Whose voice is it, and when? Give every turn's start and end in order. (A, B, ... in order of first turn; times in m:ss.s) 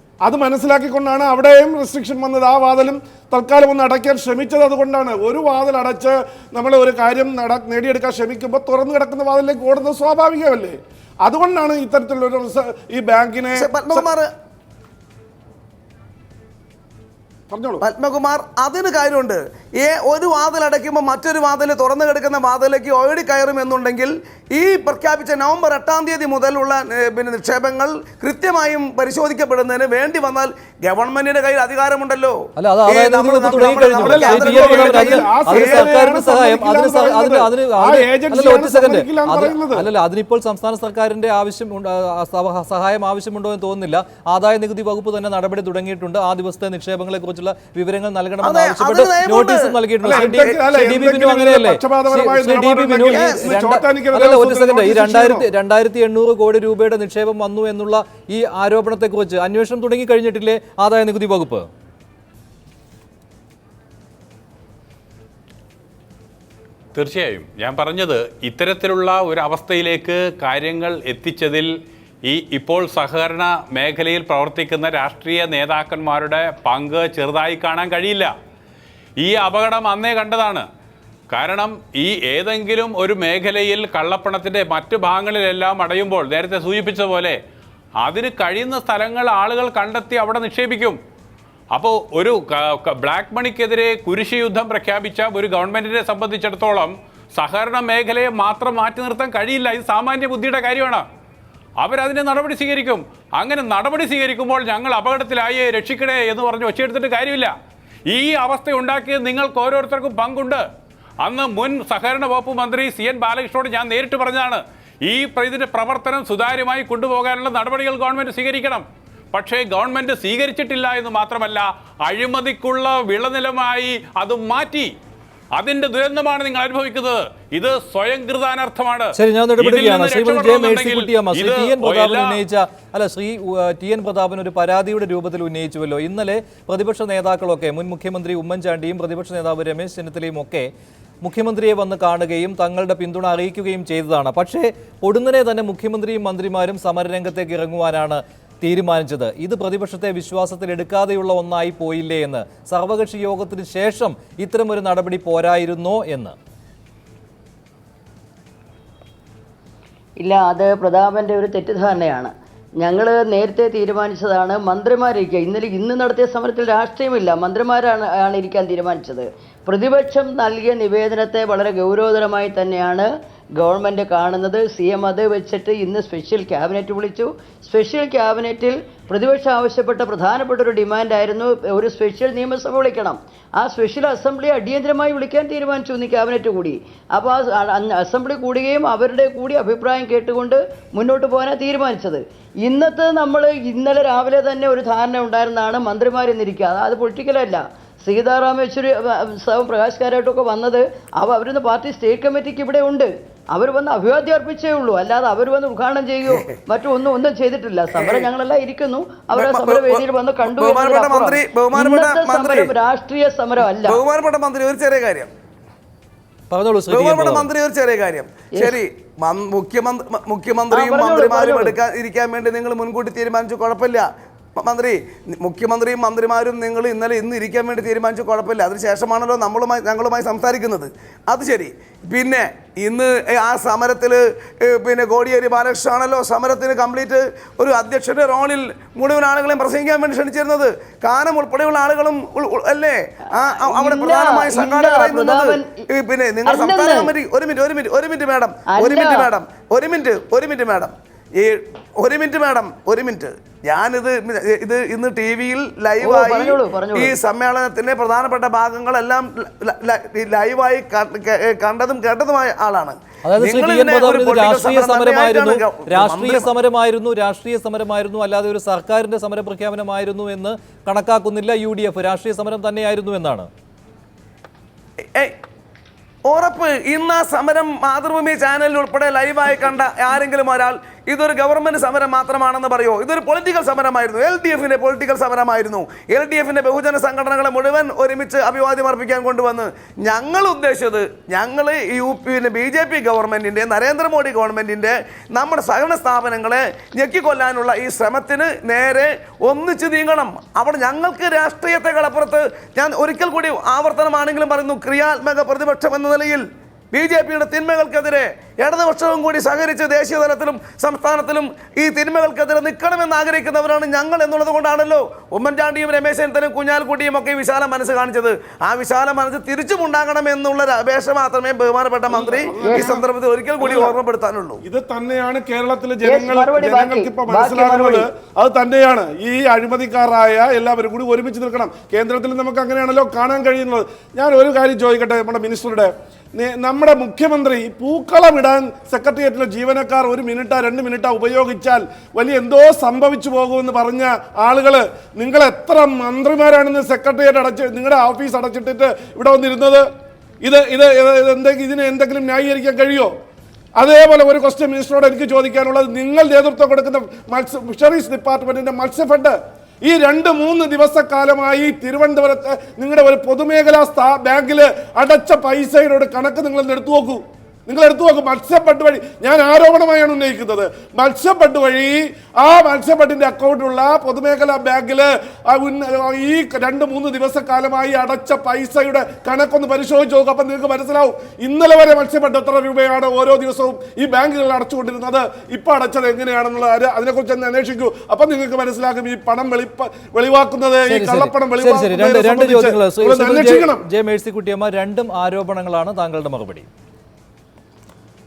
0:00.2-0:14.1 A
0:13.6-0:14.3 B
0:17.5-0:17.8 A
0:17.8-0:35.9 B
0:32.6-1:01.7 C
0:34.0-0:39.9 A
0:48.4-0:50.6 B
0:50.0-0:55.5 A
0:53.1-0:53.5 B
1:06.9-1:11.7 D
1:12.3-1:18.3 D
1:19.2-1:20.7 D
1:21.3-1:27.4 D
1:28.0-1:31.0 D
1:31.7-1:41.0 D
1:41.8-1:47.5 D
1:48.1-1:50.6 D
1:51.2-2:04.9 D
2:05.6-2:12.4 D
2:09.2-2:20.7 C
2:21.2-2:36.4 C
2:40.2-2:53.1 E
2:53.6-3:34.0 E
3:28.0-3:28.3 B
3:29.4-3:32.7 B
3:33.8-3:35.3 B
3:36.5-3:37.5 C
3:36.9-3:44.1 B
3:40.7-3:41.8 E
3:44.6-4:26.5 B
4:03.6-4:05.8 E
4:06.5-4:07.1 E
4:08.7-4:09.3 E
4:16.0-4:17.1 E
4:23.3-4:33.5 C
4:36.3-5:24.6 B
5:22.1-5:23.0 A
5:22.6-5:23.0 E
5:23.6-5:24.0 A
5:24.6-5:49.9 A
5:26.1-5:28.1 E
5:50.4-5:53.1 A
5:53.8-6:33.8 A
6:30.9-6:36.7 C